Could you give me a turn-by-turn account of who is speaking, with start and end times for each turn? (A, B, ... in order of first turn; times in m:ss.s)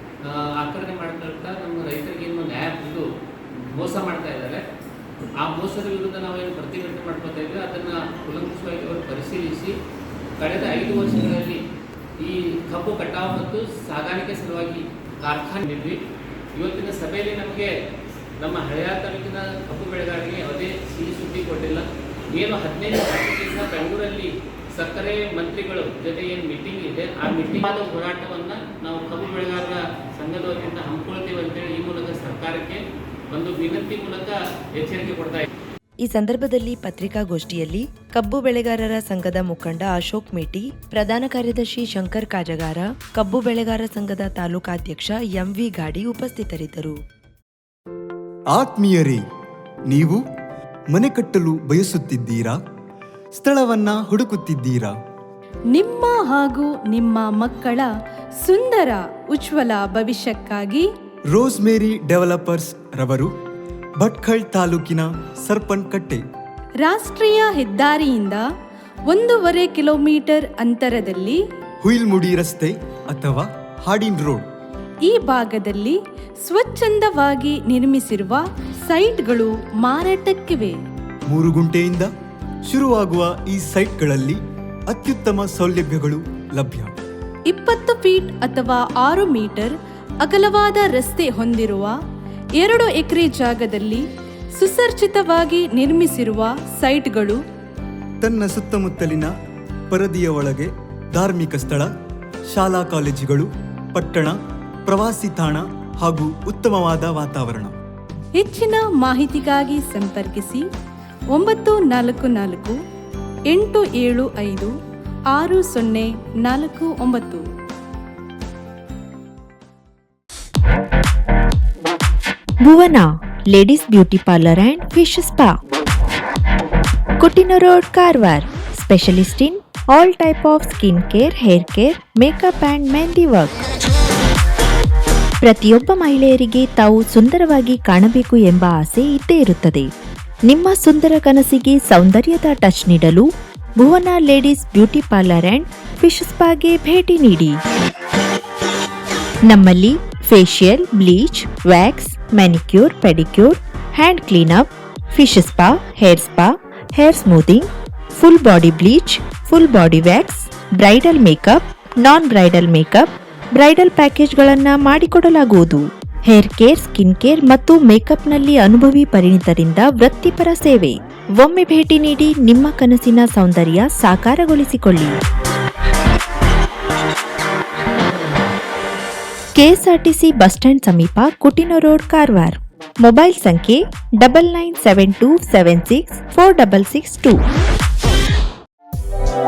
0:00.2-0:03.0 A
0:03.7-0:04.6 A
0:05.4-0:09.7 A
0:10.4-0:11.6 A
0:12.2-0:16.0 A
0:16.5-0:17.7 A
0:18.4-0:35.4 A
0:36.0-0:46.9 B
0:48.5-0:49.2 C
0:49.9-0:50.2 C
0:50.9-0:52.6 C
0:53.3-0:54.9 C
0:55.7-0:57.9 D
0:58.4-1:00.9 D
1:01.3-1:03.3 C
1:04.0-1:06.2 C
1:06.8-1:08.4 D
1:09.1-1:11.4 D
1:11.8-1:14.5 C
1:15.0-1:20.8 D
1:21.3-1:22.1 C
1:22.6-1:26.9 C
1:27.5-1:31.9 D
1:32.6-1:34.0 D
1:34.6-1:37.4 D
1:38.2-1:39.3 C
1:39.9-1:41.9 C
1:42.5-1:47.7 C
1:48.3-1:50.6 D
1:51.3-1:52.8 D
1:53.5-1:54.7 D
1:55.3-1:57.4 D
2:02.6-2:05.6 E
2:07.2-2:13.5 E
2:15.4-2:19.9 E
2:20.5-2:27.6 E
2:29.4-2:55.2 E
2:59.5-3:07.4 E